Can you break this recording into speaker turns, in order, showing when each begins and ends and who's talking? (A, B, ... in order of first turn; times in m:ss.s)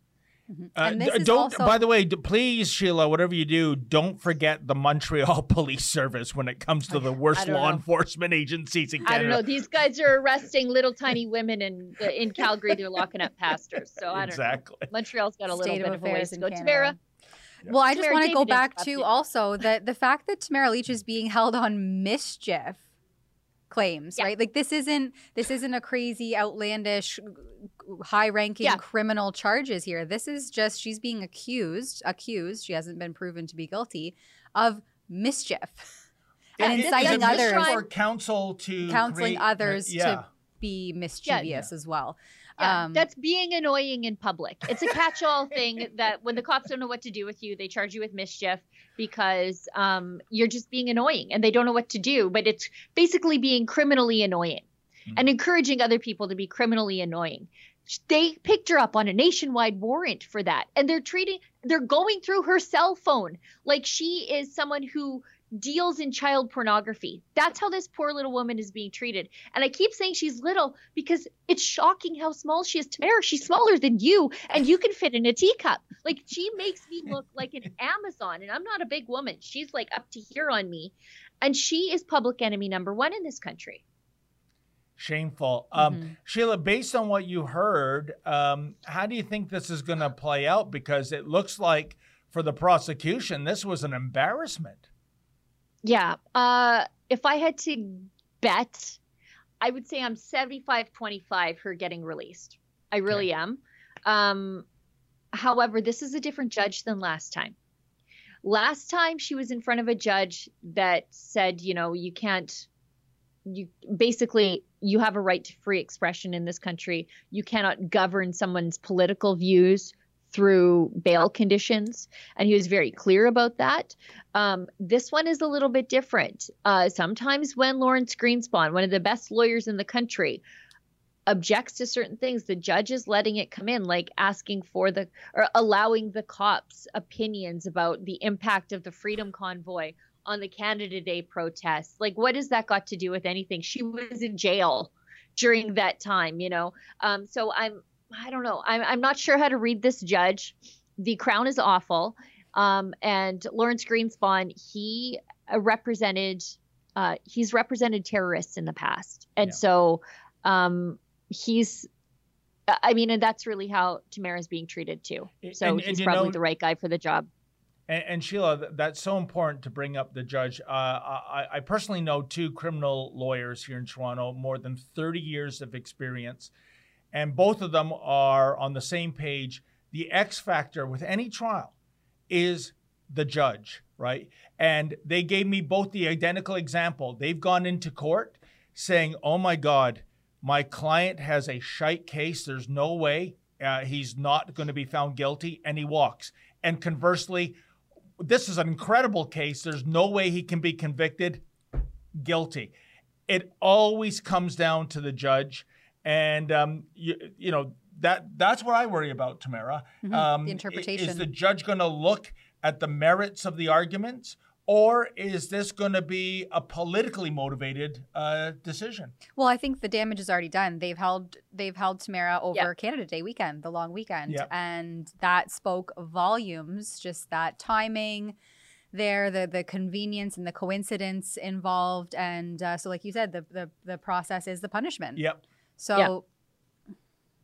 0:00.5-0:01.8 A
0:00.8-0:09.4 B
0:07.3-0:07.8 C
0:09.0-0:17.0 C
0:14.1-0:14.9 B
0:15.5-0:17.0 A
0:17.7-0:22.8 A
0:17.9-0:19.1 C
0:23.7-0:35.9 A
0:36.6-0:40.2 B
0:36.6-0:37.8 A
0:36.6-0:37.8 C
0:38.8-0:43.0 A
0:42.6-1:23.8 C
1:25.0-1:34.8 B
1:35.8-1:39.0 C
1:39.6-1:44.6 C
1:45.3-1:47.6 C
1:48.4-1:52.7 C
1:53.4-2:10.4 C
2:11.3-2:41.9 C
2:42.7-2:47.3 C
2:45.4-2:46.4 B
2:47.9-2:56.5 B
2:57.1-3:01.7 B
3:02.3-3:17.6 B
3:18.2-3:21.4 B
3:22.1-3:22.7 B
3:23.3-3:39.1 B
3:30.0-3:31.3 A
3:39.4-3:48.4 A
3:48.9-3:55.3 A
3:55.2-3:55.4 B
3:55.8-3:56.2 A